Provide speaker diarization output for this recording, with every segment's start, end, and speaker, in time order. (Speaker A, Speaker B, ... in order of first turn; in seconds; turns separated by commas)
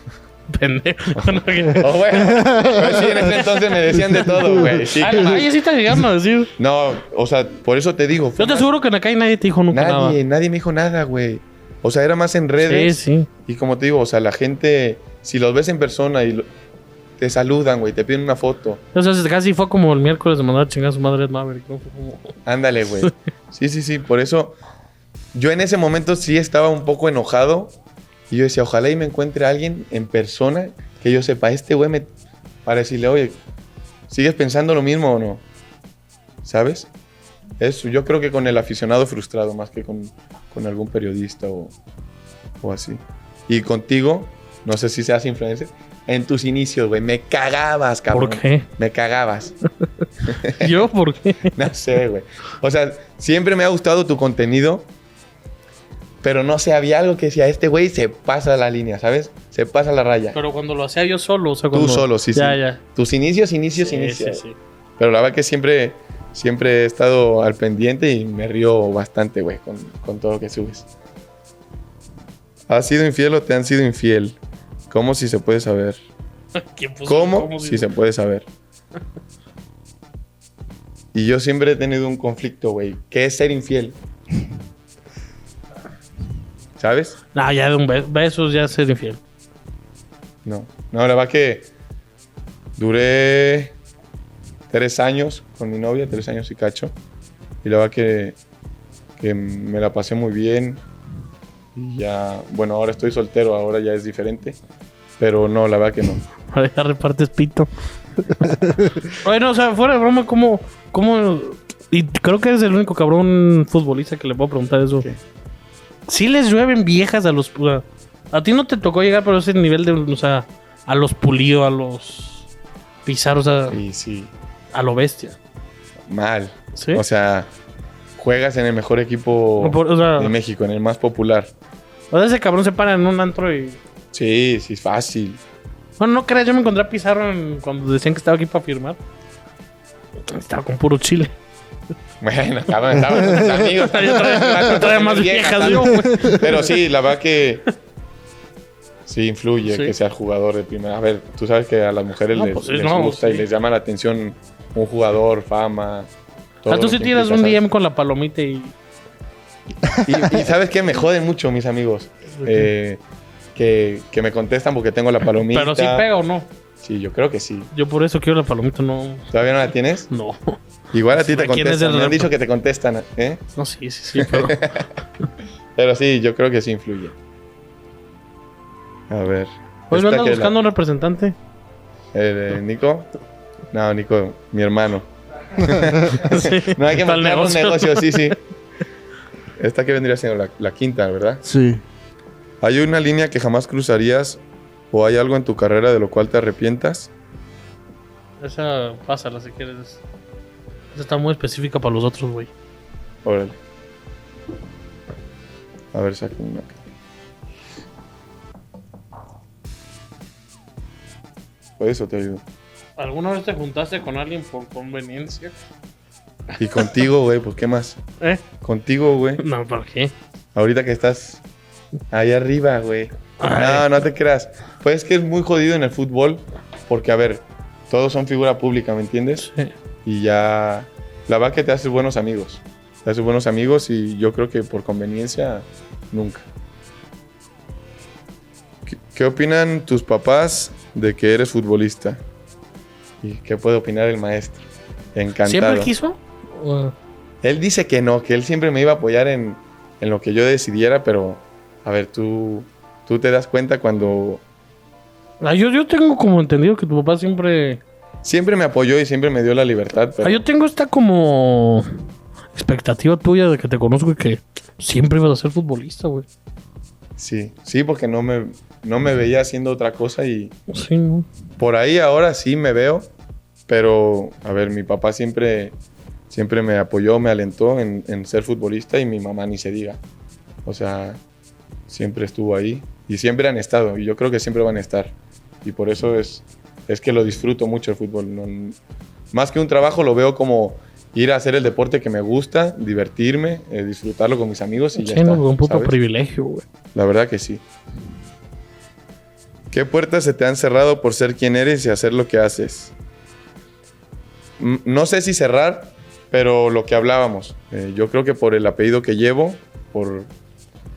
Speaker A: 0.5-6.5, Speaker B: 1.1-5.5, Speaker C: 2.2-3.1, Speaker B: 6.6-8.7, Speaker A: 8.4-10.2, Speaker B: 9.7-16.5, Speaker A: 12.6-13.3, Speaker B: 17.2-18.8, Speaker A: 18.9-22.3, Speaker B: 22.4-24.6, Speaker B: 25.3-27.7, Speaker B: 28.3-32.1, Speaker B: 32.6-33.4, Speaker B: 34.1-35.4, Speaker B: 36.4-36.9, Speaker B: 37.6-41.7, Speaker B: 42.6-49.5, Speaker A: 48.1-48.6, Speaker B: 50.3-50.8, Speaker A: 50.5-51.5, Speaker B: 51.5-54.9, Speaker B: 56.2-60.4, Speaker A: 60.3-62.8, Speaker B: 61.7-64.4, Speaker A: 63.7-64.5, Speaker B: 65.0-70.9, Speaker B: 72.7-74.4, Speaker B: 74.9-76.0, Speaker A: 76.6-77.9, Speaker B: 77.1-78.5, Speaker B: 81.1-84.0, Speaker B: 86.8-87.2, Speaker A: 87.3-89.2, Speaker B: 90.4-91.7, Speaker B: 92.8-93.7, Speaker B: 94.7-96.9, Speaker B: 97.6-98.3, Speaker B: 99.2-100.8, Speaker B: 101.8-104.6, Speaker B: 105.2-106.2, Speaker A: 106.5-107.7, Speaker A: 108.2-115.0, Speaker A: 116.1-122.5, Speaker A: 123.0-123.8, Speaker B: 123.7-124.3, Speaker A: 124.7-125.4, Speaker B: 126.1-127.5, Speaker A: 126.7-127.0, Speaker B: 128.2-131.5, Speaker A: 129.6-130.3, Speaker A: 132.1-133.8, Speaker B: 134.1-135.4, Speaker A: 136.0-139.0, Speaker A: 140.3-141.3, Speaker B: 142.2-147.6, Speaker A: 143.3-146.7, Speaker C: 145.9-146.4, Speaker B: 149.1-156.1, Speaker A: 149.7-149.9, Speaker A: 152.3-153.5, Speaker B: 156.6-157.6, Speaker A: 156.7-158.7, Speaker B: 160.0-163.0, Speaker A: 162.3-162.7, Speaker B: 163.5-166.1, Speaker A: 165.5-166.5, Speaker B: 166.8-167.7, Speaker A: 167.7-169.3, Speaker B: 169.3-170.1, Speaker A: 170.1-170.6, Speaker B: 170.9-173.4, Speaker A: 171.1-172.3, Speaker A: 173.6-174.7, Speaker B: 174.2-174.9, Speaker B: 175.8-177.1, Speaker B: 179.1-180.5, Speaker A: 179.9-181.3, Speaker B: 182.1-183.1, Speaker B: 183.7-188.4, Speaker C: 185.6-186.2, Speaker A: 186.1-188.3, Speaker B: 189.6-191.4, Speaker C: 191.4-191.8, Speaker B: 192.6-194.4, Speaker B: 194.9-197.1, Speaker A: 198.4-200.0, Speaker A: 200.9-202.5, Speaker B: 203.2-203.6, Speaker B: 205.9-206.8, Speaker B: 211.8-212.4, Speaker A: 213.0-215.5, Speaker B: 216.6-218.0, Speaker B: 218.6-219.4, Speaker A: 219.4-220.1, Speaker B: 220.5-221.4, Speaker B: 222.1-229.5, Speaker A: 223.4-224.0, Speaker A: 229.4-229.7, Speaker B: 230.0-236.4, Speaker B: 238.9-242.2, Speaker B: 243.2-245.9, Speaker A: 245.4-246.9, Speaker B: 247.4-254.4, Speaker A: 255.4-257.8, Speaker B: 258.2-260.4, Speaker A: 260.2-261.9, Speaker A: 262.5-266.2, Speaker B: 267.2-270.5, Speaker A: 270.7-271.3, Speaker B: 271.6-273.1, Speaker B: 273.7-275.7, Speaker B: 276.3-280.0, Speaker B: 280.6-281.2, Speaker B: 281.9-285.1, Speaker B: 285.6-288.8, Speaker B: 289.3-295.9, Speaker A: 294.9-296.6, Speaker B: 296.9-297.6, Speaker B: 299.7-302.9, Speaker B: 304.6-310.3